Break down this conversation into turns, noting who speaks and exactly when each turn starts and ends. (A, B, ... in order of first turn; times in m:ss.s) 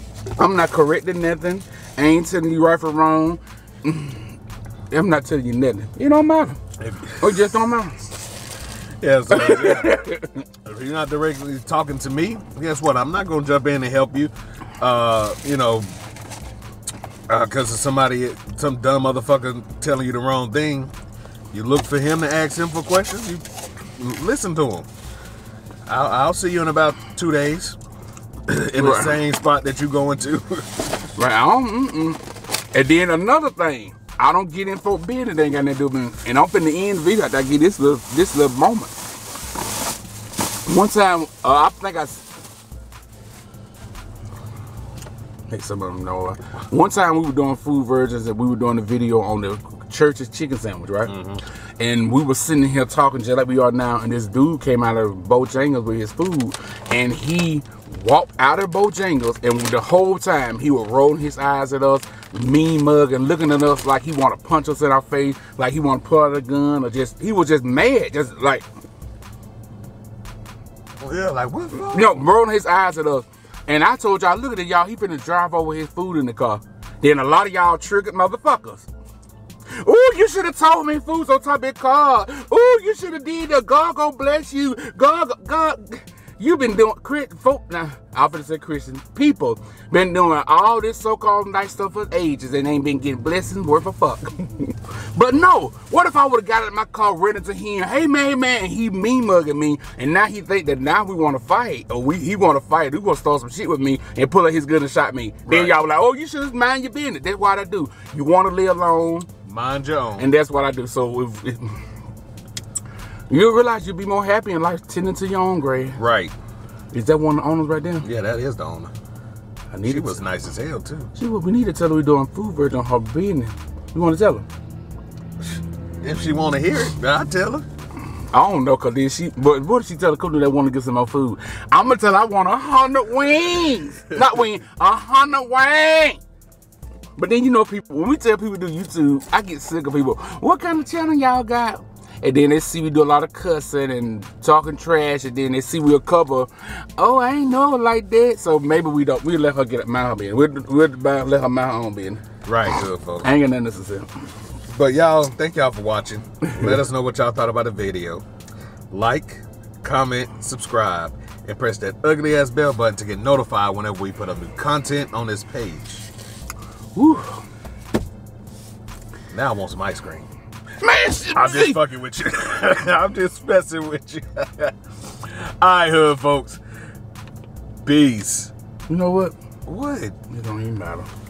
0:00.4-0:04.3 A
0:04.9-0:06.6 A
0:06.8-0:07.6 B
0:07.2-0:08.1 A
0:09.0-0:10.1 B
0:09.3-0:10.3 A
0:10.6-0:15.9 B
0:17.3-0:20.9 B
0:21.5-0:23.4 B
0:24.0-0:24.9 B
0:25.8-0:27.8 B
0:28.5-0:30.7 B
0:28.8-0:29.2 A
0:31.2-0:32.2 A
0:32.7-0:39.0 A
0:40.7-0:42.2 A
0:45.5-0:51.2 A
0:51.1-0:51.4 B
0:51.8-1:08.6 A
1:11.0-1:12.2 B
1:11.9-1:18.9 A
1:19.8-1:49.3 A
1:45.5-1:45.8 B
1:49.4-1:50.3 B
1:50.2-1:51.8 A
1:53.3-1:56.0 A
1:56.0-1:56.3 B
1:56.9-1:58.0 A
1:58.0-1:58.9 B
1:59.7-2:00.2 A
1:59.8-2:01.1 B
2:01.1-2:04.4 A
2:06.0-2:07.6 B
2:08.3-2:16.2 A
2:17.2-2:32.7 A
2:32.4-2:33.3 B
2:33.2-2:34.1 A
2:34.7-2:38.2 B
2:36.5-2:36.7 A
2:38.9-2:46.1 B
2:46.9-2:47.4 A
2:49.3-2:50.3 B
2:50.8-2:51.8 A
2:51.3-2:56.6 B
2:57.8-2:58.5 B
2:58.9-2:59.3 A
2:59.6-3:00.2 B
3:00.3-3:01.1 A